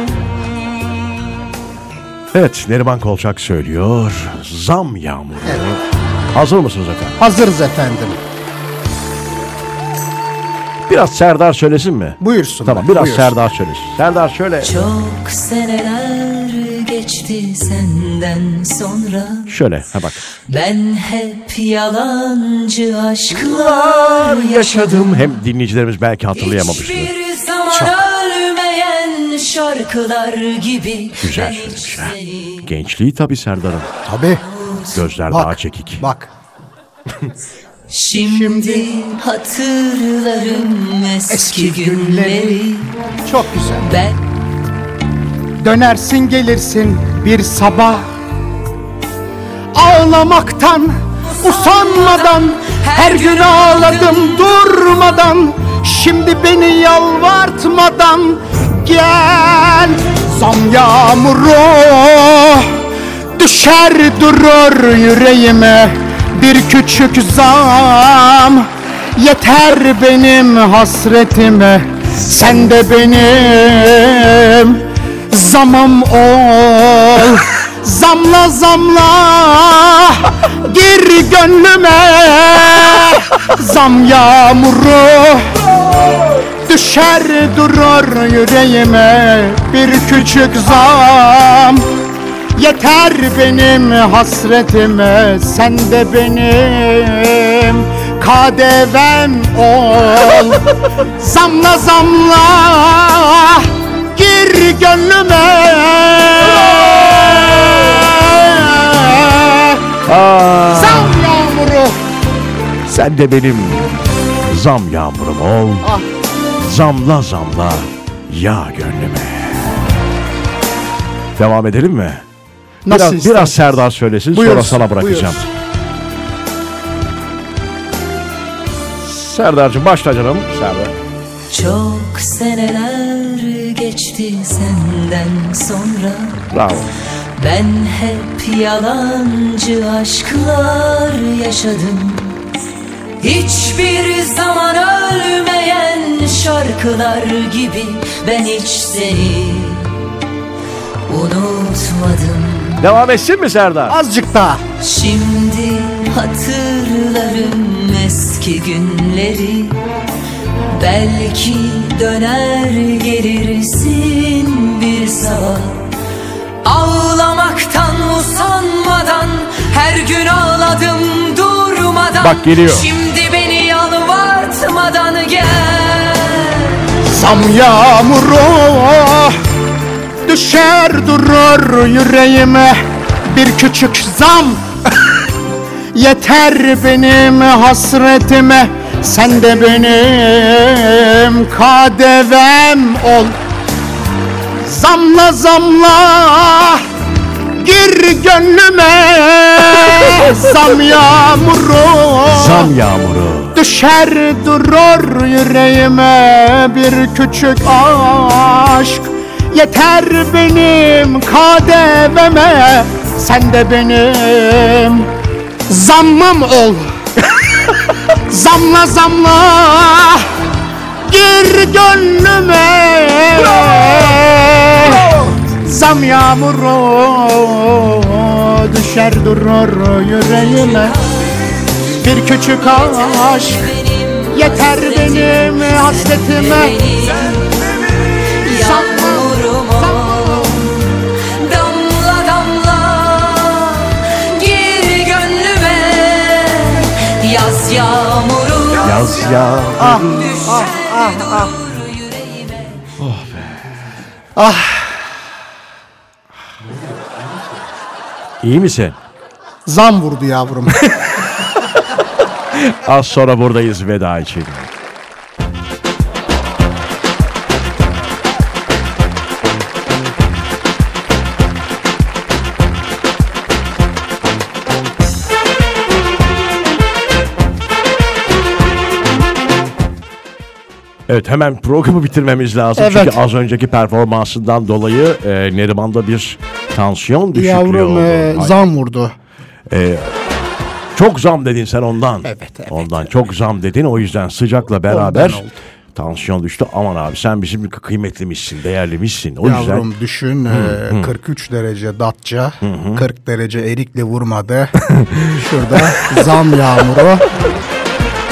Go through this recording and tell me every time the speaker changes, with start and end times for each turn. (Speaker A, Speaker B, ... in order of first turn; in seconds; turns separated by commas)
Speaker A: 2.3-5.8, Speaker A: 6.3-7.2, Speaker B: 7.2-8.2, Speaker A: 10.9-14.7, Speaker B: 12.2-13.4, Speaker C: 14.6-19.6, Speaker A: 19.5-20.2, Speaker C: 20.5-25.4, Speaker A: 23.3-27.1, Speaker C: 26.3-32.7, Speaker B: 27.7-28.0, Speaker A: 31.2-33.9, Speaker B: 34.0-34.4, Speaker C: 34.4-35.1, Speaker A: 34.9-36.0, Speaker B: 35.3-36.3, Speaker C: 37.9-42.9, Speaker B: 38.1-39.0, Speaker B: 41.3-42.6, Speaker B: 43.2-43.9, Speaker C: 43.8-44.2, Speaker B: 45.6-48.1, Speaker B: 49.7-62.8, Speaker C: 51.3-54.6, Speaker B: 63.4-85.6, Speaker B: 86.6-91.9, Speaker B: 92.5-109.8, Speaker A: 106.7-107.2, Speaker A: 110.0-111.3, Speaker B: 110.7-112.0, Speaker A: 112.9-115.9, Speaker A: 116.6-119.9, Speaker A: 121.4-122.3, Speaker B: 122.8-123.8, Speaker A: 122.9-125.4, Speaker B: 124.3-125.5, Speaker A: 129.0-130.9, Speaker C: 131.5-136.5, Speaker A: 136.5-136.9, Speaker C: 137.4-142.4, Speaker C: 143.2-150.0, Speaker C: 151.1-152.9, Speaker A: 152.8-154.0, Speaker B: 153.9-154.6, Speaker C: 154.8-159.8, Speaker C: 160.7-165.9, Speaker C: 166.6-176.9, Speaker A: 172.2-172.9, Speaker B: 177.0-179.4, Speaker B: 180.3-184.6, Speaker B: 185.9-193.4, Speaker B: 194.6-196.8, Speaker B: 197.6-202.7, Speaker A: 202.3-203.6, Speaker B: 203.5-215.1, Speaker B: 215.7-216.9, Speaker B: 218.3-220.3, Speaker B: 221.1-231.0, Speaker A: 224.9-225.3, Speaker C: 230.4-231.9, Speaker B: 231.9-233.7, Speaker C: 232.6-252.9, Speaker B: 234.3-236.8, Speaker A: 237.2-238.3, Speaker B: 238.4-240.6, Speaker A: 248.8-250.4, Speaker B: 249.8-251.5, Speaker A: 253.0-253.8, Speaker B: 254.4-255.1, Speaker A: 258.4-259.0, Speaker B: 259.7-261.1, Speaker A: 262.5-264.7, Speaker A: 281.1-288.6, Speaker B: 282.8-283.2, Speaker B: 287.3-289.1, Speaker A: 289.7-290.2, Speaker A: 290.9-299.9, Speaker B: 292.2-293.2, Speaker B: 294.9-295.6, Speaker B: 299.4-307.3, Speaker A: 300.5-301.1, Speaker A: 302.6-303.1, Speaker A: 304.8-306.2